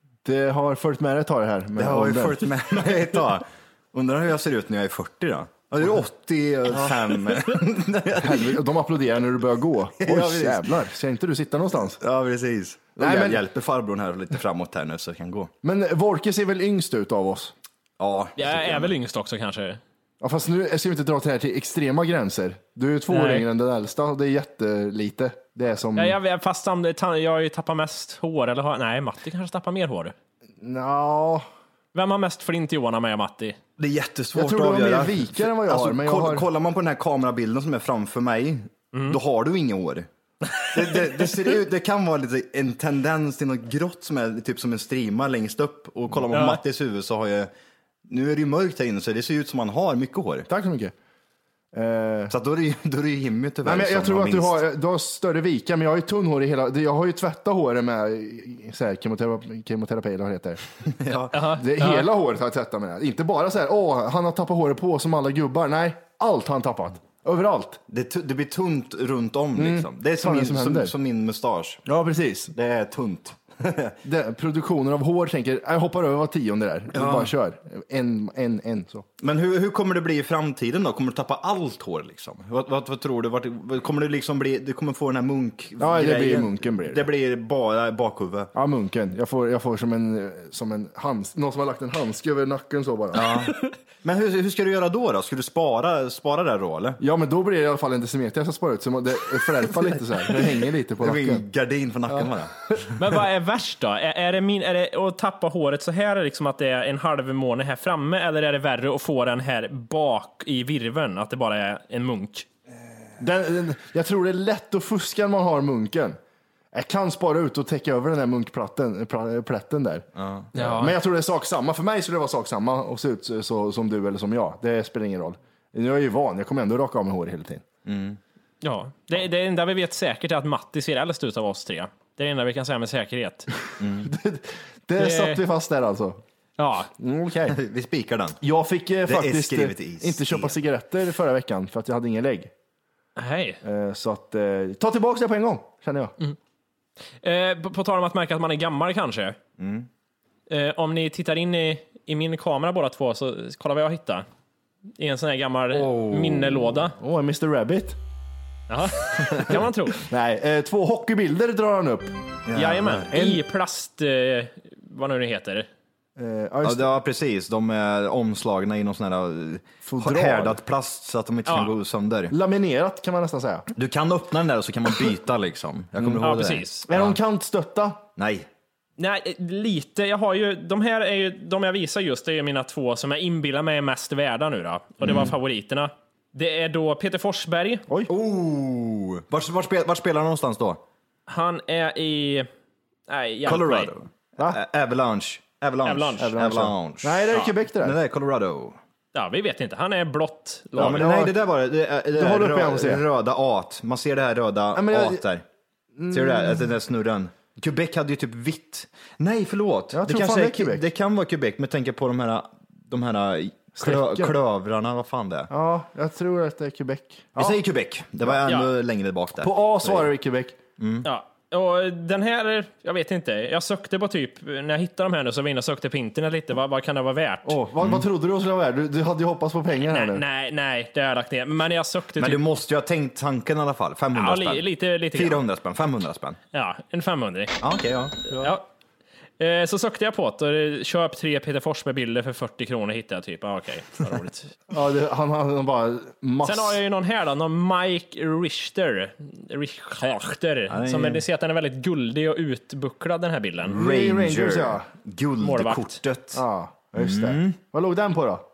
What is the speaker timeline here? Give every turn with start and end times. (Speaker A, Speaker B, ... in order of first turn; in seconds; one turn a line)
Speaker A: 0.2-2.5
Speaker B: 1.8-8.6
Speaker A: 6.7-7.2
Speaker A: 8.2-12.0
Speaker B: 10.0-10.7
Speaker B: 12.0-15.5
Speaker A: 13.0-13.4
Speaker A: 15.6-17.5
Speaker B: 18.0-18.9
Speaker C: 18.4-19.8
Speaker A: 20.2-26.2
Speaker C: 23.1-23.5
Speaker C: 25.9-30.1
Speaker A: 30.6-31.4
Speaker C: 31.9-33.6
Speaker B: 33.8-40.1
Speaker A: 34.3-36.5
Speaker C: 38.9-39.2
Speaker B: 40.7-47.5
Speaker C: 46.3-46.6
Speaker B: 48.1-50.5
Speaker A: 50.5-50.9
Speaker A: 51.7-52.3
Speaker B: 52.3-54.6
Speaker A: 53.6-60.6
Speaker B: 60.9-61.4
Speaker C: 61.3-62.1
Speaker A: 61.4-67.8
Speaker B: 67.9-71.8
Speaker A: 69.5-70.9
Speaker A: 71.8-72.5
Speaker B: 72.5-74.0
Speaker A: 74.0-79.0
Speaker B: 76.9-77.3
Speaker B: 79.2-88.5
Speaker A: 85.8-87.0
Speaker A: 88.5-93.3
Speaker B: 93.1-97.0
Speaker A: 97.0-101.4
Speaker B: 100.3-102.9
Speaker C: 103.0-112.5
Speaker A: 113.2-116.2
Speaker A: 116.7-127.6
Speaker B: 120.2-120.5
Speaker C: 120.5-121.0
Speaker B: 127.8-128.2
Speaker C: 128.6-133.5
Speaker B: 133.8-134.1
Speaker A: 134.0-136.2
Speaker C: 135.0-135.4
Speaker C: 136.6-136.9
Speaker A: 137.0-137.6
Speaker B: 137.5-138.4
Speaker A: 138.4-142.5
Speaker B: 139.1-140.6
Speaker C: 143.2-143.6
Speaker A: 143.6-146.1
Speaker C: 147.2-149.4
Speaker B: 149.6-149.9
Speaker C: 150.5-154.2
Speaker C: 155.0-156.9
Speaker B: 155.7-156.7
Speaker A: 157.0-158.0
Speaker C: 158.7-160.1
Speaker A: 160.0-162.2
Speaker B: 162.5-163.4
Speaker C: 162.5-165.7
Speaker A: 166.2-166.9
Speaker B: 166.6-172.3
Speaker A: 169.8-170.6
Speaker C: 171.5-171.7
Speaker A: 172.3-173.7
Speaker B: 173.7-177.2
Speaker C: 176.2-176.8
Speaker A: 176.9-178.0
Speaker B: 178.2-178.5
Speaker C: 179.0-187.8
Speaker B: 188.1-190.8
Speaker C: 191.3-192.5
Speaker C: 193.1-193.9
Speaker B: 193.4-198.8
Speaker C: 195.8-196.3
Speaker A: 196.2-197.9
Speaker C: 199.1-201.1
Speaker B: 200.8-205.4
Speaker A: 200.8-201.4
Speaker A: 202.1-203.0
Speaker A: 204.7-205.2
Speaker A: 205.9-206.7
Speaker B: 206.1-215.5
Speaker A: 209.9-210.8
Speaker A: 213.8-214.3
Speaker A: 215.5-217.6
Speaker B: 217.3-220.1
Speaker A: 219.4-220.6
Speaker B: 220.8-221.1
Speaker C: 221.0-227.6
Speaker A: 227.4-230.2
Speaker B: 227.8-228.0
Speaker C: 229.8-232.4
Speaker B: 232.2-236.4
Speaker C: 234.1-235.4
Speaker C: 236.5-237.6
Speaker B: 237.6-238.2
Speaker C: 238.3-238.7
Speaker C: 239.4-244.5
Speaker A: 244.7-246.8
Speaker C: 246.4-253.8
Speaker B: 250.7-251.2
Speaker A: 253.7-254.8
Speaker B: 253.7-256.4
Speaker C: 255.4-256.0
Speaker A: 256.3-258.4
Speaker B: 256.9-257.6